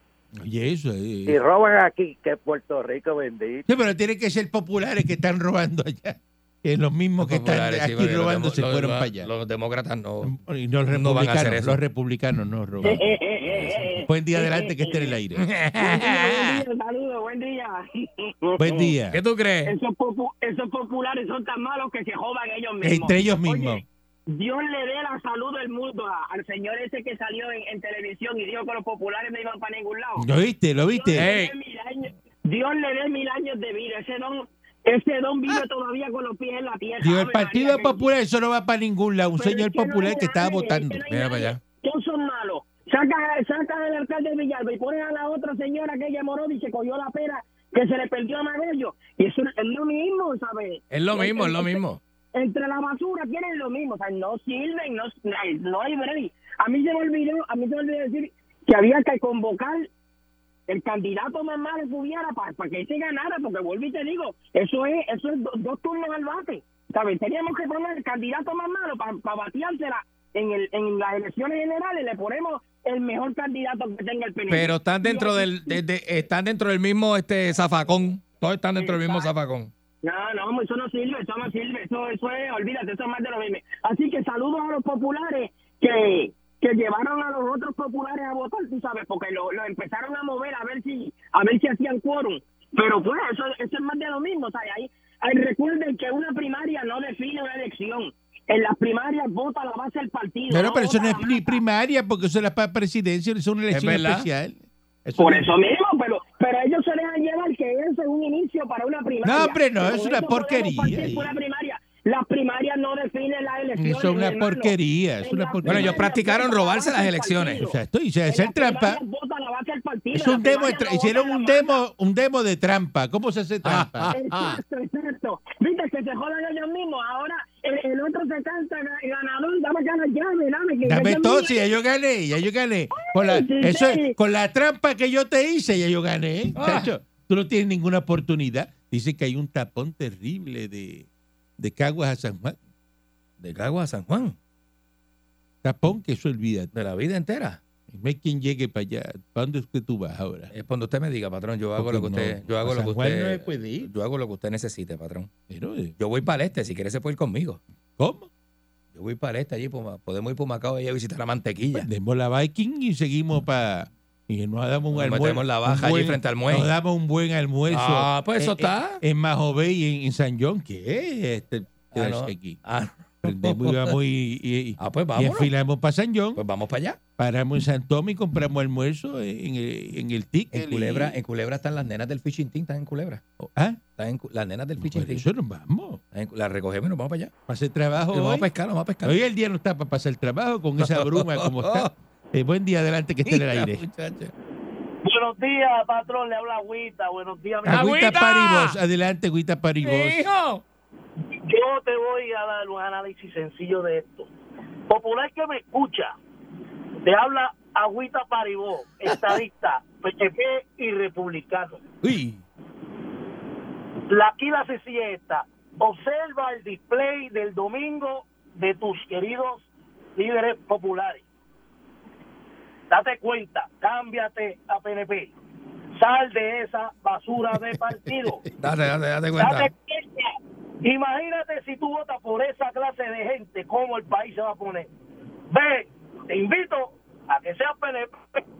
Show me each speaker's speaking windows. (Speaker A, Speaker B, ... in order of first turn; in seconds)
Speaker A: 0.4-1.4, 3.7-9.3, 10.2-13.1, 14.0-15.5, 18.6-19.2, 22.8-23.8, 30.2-31.3, 37.0-41.1, 100.5-105.5, 109.2-111.3, 113.7-116.0, 117.6-119.0, 120.1-124.4, 130.8-141.1, 141.6-142.6, 145.6-146.7, 147.9-150.5, 151.8-153.9, 155.5-155.9, 158.0-158.3, 161.8-172.6, 173.2-176.4, 177.2-181.2, 183.4-183.8, 184.8-186.0, 187.5-188.5, 189.0-194.3, 197.6-200.3
Speaker B: 1.3-3.6
Speaker C: 7.2-10.3, 10.9-11.8, 15.3-16.5, 19.1-19.7, 31.1-31.5, 41.1-41.6, 50.9-52.0, 74.5-79.7, 103.7-104.3, 115.6-117.6, 123.6-124.2, 136.6-136.9, 143.4-144.3, 146.7-147.6, 150.5-155.3, 156.0-157.6, 158.9-161.9, 164.9-166.7, 167.7-169.0, 171.9-173.9, 174.8-175.5, 176.3-177.0, 180.5-183.2, 184.0-185.2, 186.1-187.3, 188.1-189.2, 190.8-191.9, 193.2-193.8, 197.7-198.8, 199.8-200.6, 212.0-212.4, 228.6-229.7
Speaker D: 12.8-15.2, 15.8-18.9, 19.6-38.1, 39.4-51.8, 52.3-59.9, 60.7-75.8, 78.7-79.3, 80.0-101.6, 105.2-121.8, 124.1-131.5, 132.9-134.1
Speaker E: 195.0-198.2, 201.4-204.3, 204.9-206.1, 207.0-211.8, 214.1-221.2, 222.9-225.3, 226.0-228.4, 229.3-234.9, 235.5-238.4